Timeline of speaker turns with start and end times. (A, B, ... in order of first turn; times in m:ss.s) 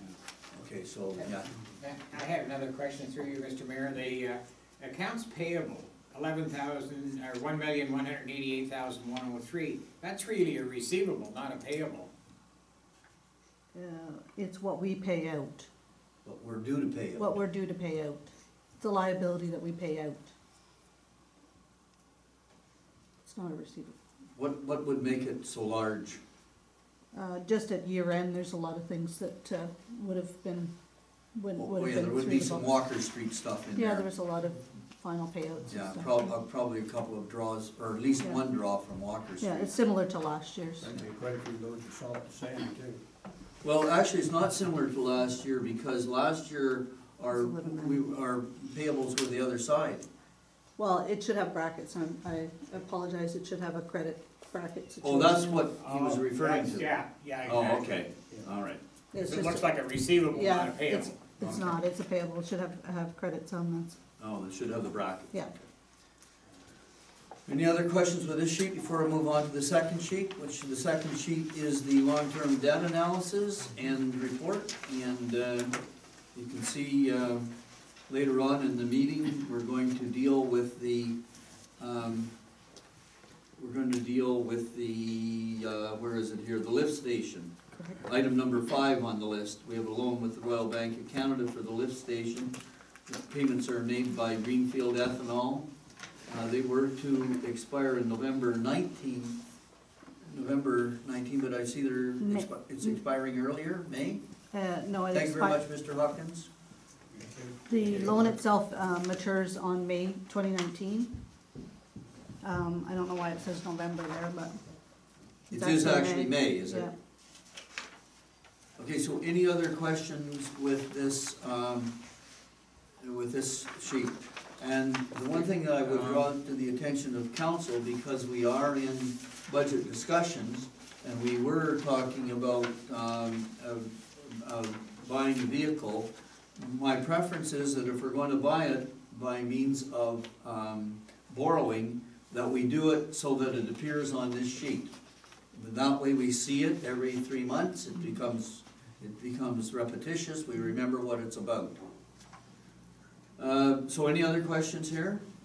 0:00.5-0:01.5 A
0:01.8-0:12.1 B
0:13.7-0:15.7 C
0:16.2-0:17.3 A
0:17.2-0:20.3 C
0:23.2-0:23.9 C
0:24.4-0:26.2 A
0:27.1-0:30.7 C
0:31.4-0:32.7 C
0:31.6-0:34.1 A
0:33.7-0:36.3 C
0:35.7-0:39.7 A
0:39.4-0:40.9 C
0:40.8-0:43.0 D
0:43.6-0:50.0 A
0:47.3-0:48.0 C
0:50.8-0:55.7 C
0:55.0-0:56.9 A
0:55.8-0:57.9 B
0:57.4-0:58.8 A
0:59.1-0:59.6 C
0:59.2-1:01.2 B
1:00.3-1:04.0 C
1:04.2-1:05.4 A
1:07.5-1:15.8 A
1:16.3-1:17.5 A
1:18.1-1:21.2 A
1:21.8-1:22.3 A
1:23.6-1:32.5 A
1:33.1-1:35.7 A
1:36.3-1:39.4 A
1:40.2-1:44.2 A
1:42.2-1:43.0 C
1:44.5-1:45.6 C
1:45.1-1:46.5 A
1:47.1-1:48.2 D
1:47.7-1:51.1 C
1:52.4-1:54.6 C
1:55.5-1:56.9 C
1:55.5-1:56.9 A
1:58.8-2:01.9 A
2:03.0-2:24.9 A
2:25.5-2:31.8 A
2:33.4-2:35.2 A